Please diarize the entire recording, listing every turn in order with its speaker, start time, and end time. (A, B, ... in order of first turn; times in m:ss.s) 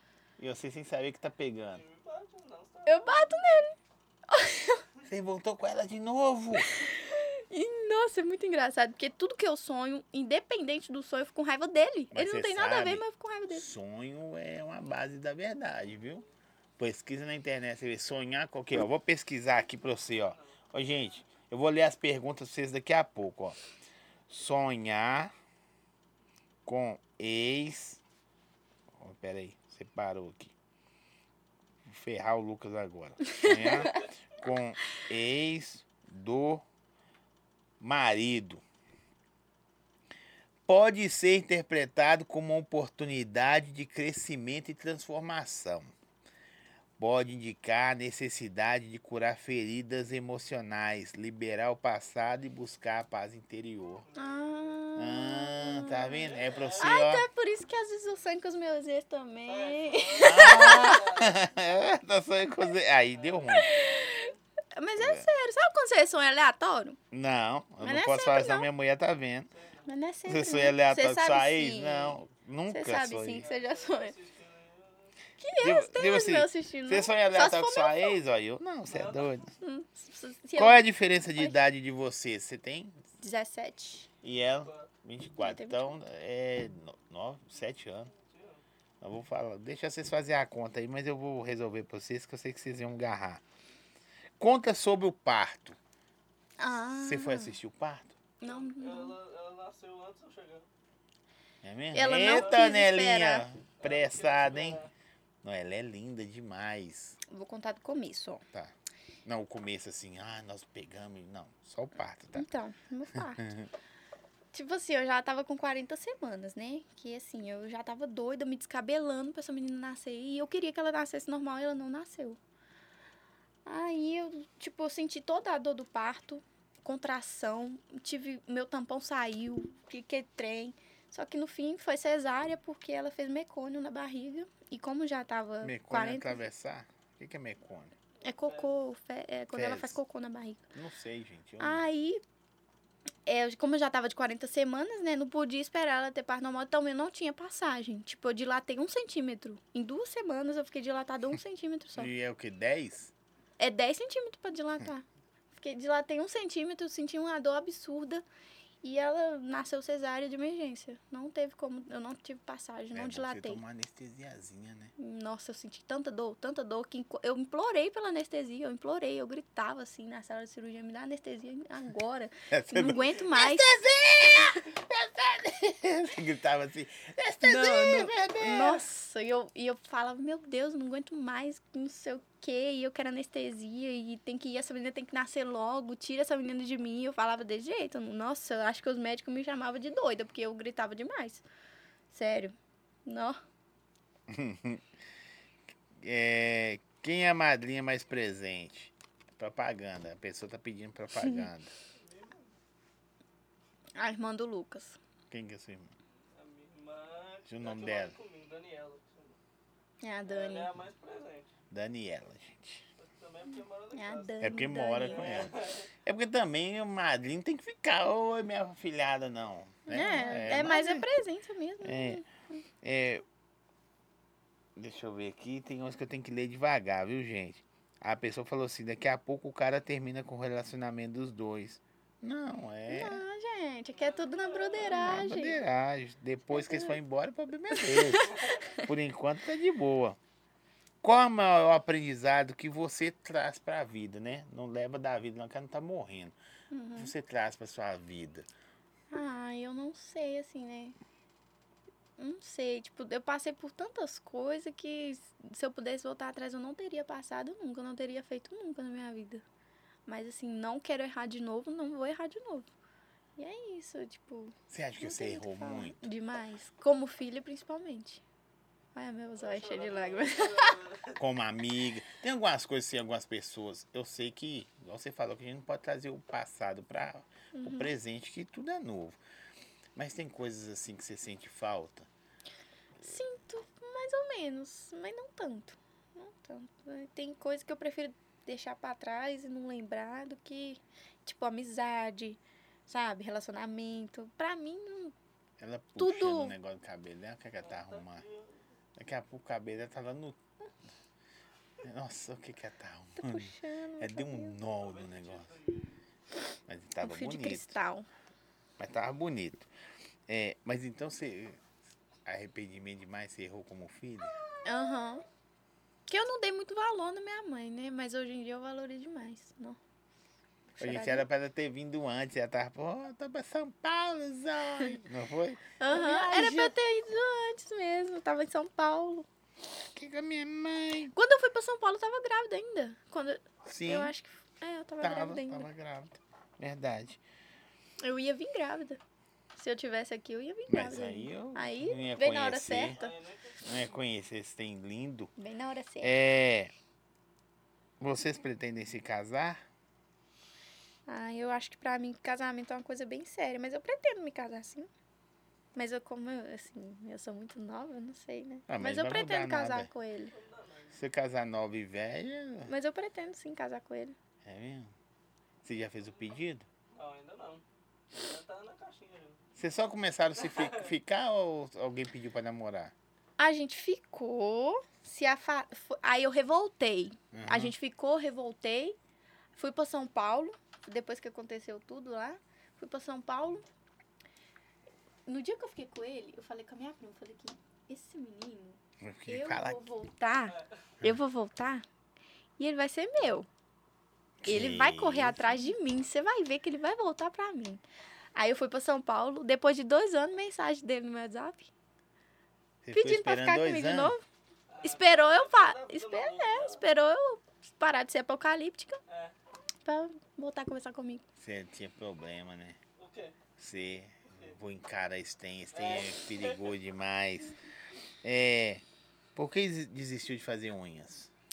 0:00.4-0:01.8 A
0:01.7-0:03.7 B
0:02.9-0:03.7 C
0:04.3-0:04.8 C
0:05.0-0:06.8 A
0:06.6-0:13.7 C
0:12.1-0:16.2 A
0:16.0-0:16.3 B
0:16.8-0:23.6 A
0:20.1-0:20.6 B
0:24.3-0:25.3 A
0:26.7-0:28.0 A
0:29.0-0:30.5 A
0:31.9-0:36.6 A
0:33.3-0:33.9 C
0:37.8-0:38.6 A
0:40.7-0:45.9 A
0:47.0-0:54.1 A
0:54.1-0:54.8 B
0:54.1-1:01.0 C
0:55.0-0:57.3 A
0:56.2-0:56.9 B
0:59.5-1:01.4 B
1:00.2-1:03.8 A
1:03.1-1:04.4 B
1:03.5-1:07.0 C
1:07.1-1:09.5 A
1:07.8-1:08.7 C
1:09.5-1:09.9 B
1:09.9-1:12.2 C
1:10.3-1:13.5 A
1:12.7-1:14.1 C
1:13.4-1:15.2 B
1:15.4-1:18.2 C
1:15.6-1:19.5 A
1:18.9-1:19.4 B
1:19.6-1:21.6 C
1:20.6-1:23.0 A
1:23.2-1:24.1 C
1:24.2-1:28.1 A
1:24.6-1:24.9 B
1:25.4-1:26.0 C
1:28.2-1:28.6 B
1:29.0-1:33.4 A
1:34.4-1:35.8 A
1:36.6-1:37.6 C
1:36.9-1:38.2 A
1:38.4-1:39.2 C
1:38.4-1:40.7 B
1:41.6-1:44.8 A
1:41.9-1:43.5 C
1:42.2-1:42.6 B
1:43.8-1:44.9 B
1:45.4-1:47.2 A
1:47.3-1:48.4 C
1:49.2-1:52.5 A
1:52.4-1:53.5 C
1:53.2-1:53.7 A
1:54.5-2:02.4 C
2:03.6-2:16.4 C
2:15.6-2:17.9 A
2:18.2-2:20.7 C
2:18.4-2:18.7 B
2:19.5-2:20.0 A
2:20.7-2:21.9 A
2:21.6-2:22.2 C
2:23.3-2:32.1 C
2:32.0-2:33.1 A
2:33.6-2:38.2 C
2:38.8-2:43.6 C
2:42.9-2:45.0 A
2:45.0-2:53.8 C
2:52.5-2:58.8 A
2:57.4-3:11.4 C
3:12.1-3:12.6 C
3:13.1-3:13.4 C
3:14.3-3:14.8 A
3:16.0-3:21.7 A
3:21.2-3:21.5 C
3:21.9-3:22.5 B
3:24.0-3:25.0 C
3:25.3-3:25.9 A
3:26.3-3:29.4 B
3:27.5-3:28.2 A
3:30.0-3:30.7 C
3:30.3-3:31.5 B
3:31.7-3:32.8 A
3:33.0-3:35.9 B
3:33.5-3:35.4 C
3:34.4-3:41.1 A
3:39.9-3:42.3 C
3:41.8-3:42.2 A
3:42.8-3:43.2 A
3:44.8-3:53.2 A
3:52.9-3:55.6 C
3:53.9-3:55.2 B
3:54.9-4:00.2 A
3:56.5-3:57.0 C
3:57.7-3:58.9 C
4:01.0-4:06.4 A
4:06.7-4:07.1 C
4:07.0-4:08.5 A
4:09.1-4:11.0 C
4:12.2-4:19.4 C
4:20.1-4:22.7 C
4:23.4-4:28.2 C
4:24.7-4:26.1 A
4:29.0-4:30.8 C
4:29.4-4:31.2 B
4:31.2-4:39.2 A
4:37.5-4:37.9 C
4:40.0-4:42.1 A
4:43.0-4:55.2 C
4:55.6-4:58.2 A
4:56.0-4:56.6 C
4:57.6-4:58.6 B
4:59.0-5:00.4 A
5:01.8-5:05.5 A
5:03.2-5:04.6 C
5:04.6-5:06.0 B
5:06.7-5:07.8 A
5:07.0-5:08.1 C
5:08.8-5:09.7 A
5:10.3-5:11.6 A
5:12.3-5:14.4 A
5:14.6-5:15.2 C
5:16.1-5:19.8 C
5:20.8-5:21.3 C
5:20.8-5:26.7 A
5:25.8-5:29.3 C
5:30.0-5:31.1 A
5:31.1-5:35.7 C
5:33.6-5:34.1 A
5:35.0-5:37.2 A
5:38.0-5:39.0 C
5:39.6-5:43.1 C
5:40.7-5:43.1 A
5:42.9-5:43.8 B
5:43.6-5:45.3 A
5:45.4-5:46.1 C
5:46.0-5:46.7 A
5:48.0-5:49.6 A
5:51.1-5:54.9 C
5:55.8-6:00.3 C
5:58.7-5:59.9 A
6:00.3-6:01.0 B
6:00.9-6:02.7 A
6:02.7-6:04.2 C
6:04.4-6:04.9 A
6:05.6-6:06.7 A
6:06.9-6:09.4 B
6:09.6-6:12.9 A
6:10.4-6:10.8 B
6:13.4-6:19.0 C
6:17.3-6:17.7 A
6:19.6-6:23.6 C
6:25.3-6:31.8 C
6:29.0-6:29.9 A
6:30.5-6:30.9 B
6:32.6-6:33.5 C
6:34.4-6:35.6 A
6:34.4-6:37.8 C
6:38.4-6:41.7 C
6:42.8-6:44.2 A
6:42.9-6:44.2 C
6:44.7-6:46.8 B
6:44.8-6:49.0 C
6:49.1-6:49.4 B
6:49.8-6:51.2 C
6:51.4-6:52.8 A
6:53.0-6:53.4 B
6:53.6-6:57.6 A
6:54.3-6:54.6 B
6:55.7-6:56.7 B
6:58.2-6:58.8 A
6:59.4-7:01.3 A